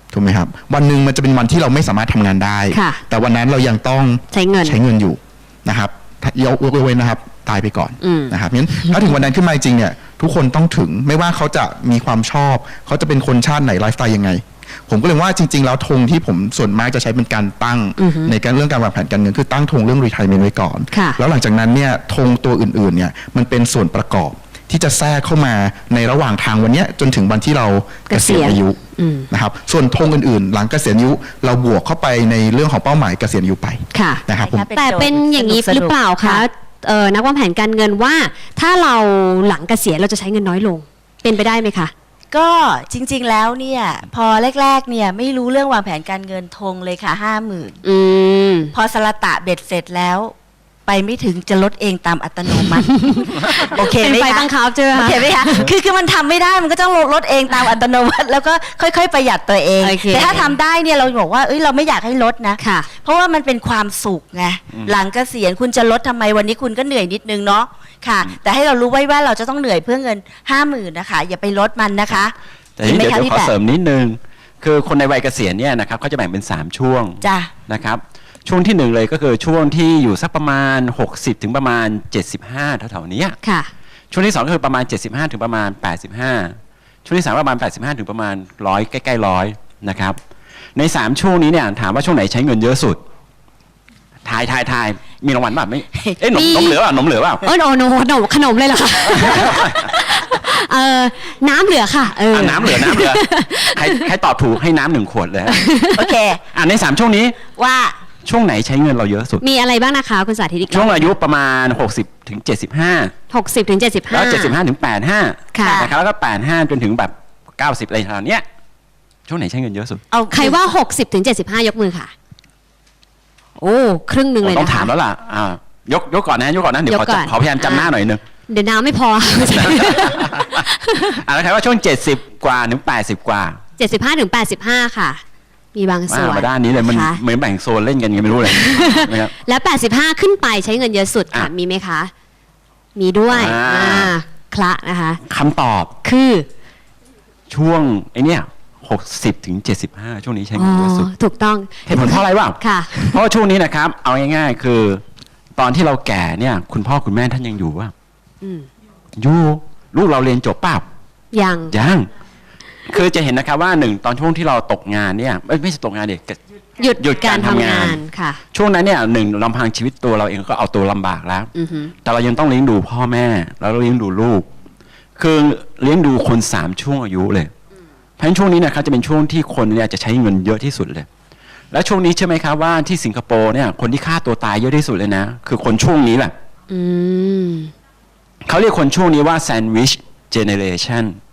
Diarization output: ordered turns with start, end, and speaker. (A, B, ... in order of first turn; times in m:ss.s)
0:00.1-0:28.8 A
0:02.7-0:03.0 B
0:04.3-0:04.8 B
0:08.0-0:09.1 B
0:18.0-0:18.3 B
0:20.9-0:21.2 B
0:28.1-0:29.3 B
0:29.3-0:34.7 A
0:33.9-0:34.2 B
0:34.4-0:36.4 C
0:34.8-0:41.9 B
0:42.3-0:47.8 C
0:47.8-0:48.7 B
0:48.7-0:50.3 C
0:50.9-1:12.3 C
0:52.9-0:55.7 B
0:59.8-1:00.6 B
1:02.6-1:02.9 B
1:12.8-1:23.4 D
1:12.8-1:13.5 C
1:17.2-1:17.5 C
1:23.4-1:23.7 B
1:24.1-1:30.2 D
1:30.8-1:33.0 D
1:34.2-1:37.4 D
1:36.0-1:36.6 C
1:36.4-1:36.8 B
1:37.4-1:44.1 B
1:39.1-1:39.8 D
1:42.3-1:45.6 D
1:45.5-1:46.1 B
1:45.9-1:46.4 C
1:46.5-1:47.4 D
1:47.5-1:48.0 C
1:48.2-1:49.4 D
1:49.4-1:51.1 B
1:50.7-1:53.1 D
1:53.3-1:54.6 B
1:54.1-1:58.4 D
1:55.5-1:55.8 B
1:55.6-1:55.9 C
1:59.3-2:00.0 D
2:00.1-2:00.6 C
2:00.3-2:02.1 B
2:03.6-2:04.9 B
2:04.4-2:08.2 D
2:06.9-2:07.9 B
2:08.5-2:11.1 B
2:09.4-2:13.6 D
2:13.8-2:15.2 B
2:15.7-2:17.2 B
2:16.1-2:19.3 D
2:18.5-2:22.1 B
2:23.0-2:25.2 B
2:23.3-2:24.2 D
2:25.2-2:25.9 D
2:26.0-2:26.5 B
2:27.5-2:31.1 D
2:30.6-2:33.2 B
2:31.9-2:35.0 D
2:35.6-2:37.9 D
2:38.4-2:38.7 B
2:39.2-2:40.8 D
2:41.3-2:41.7 B
2:41.7-2:42.1 D
2:42.9-2:46.4 D
2:46.8-2:48.4 B
2:47.0-2:48.0 D
2:48.5-2:51.5 D
2:51.6-2:51.9 B
2:52.0-2:54.5 D
2:55.2-2:57.5 D
2:58.2-3:01.1 D
3:01.7-3:06.3 D
3:06.7-3:07.7 B
3:08.4-3:11.2 D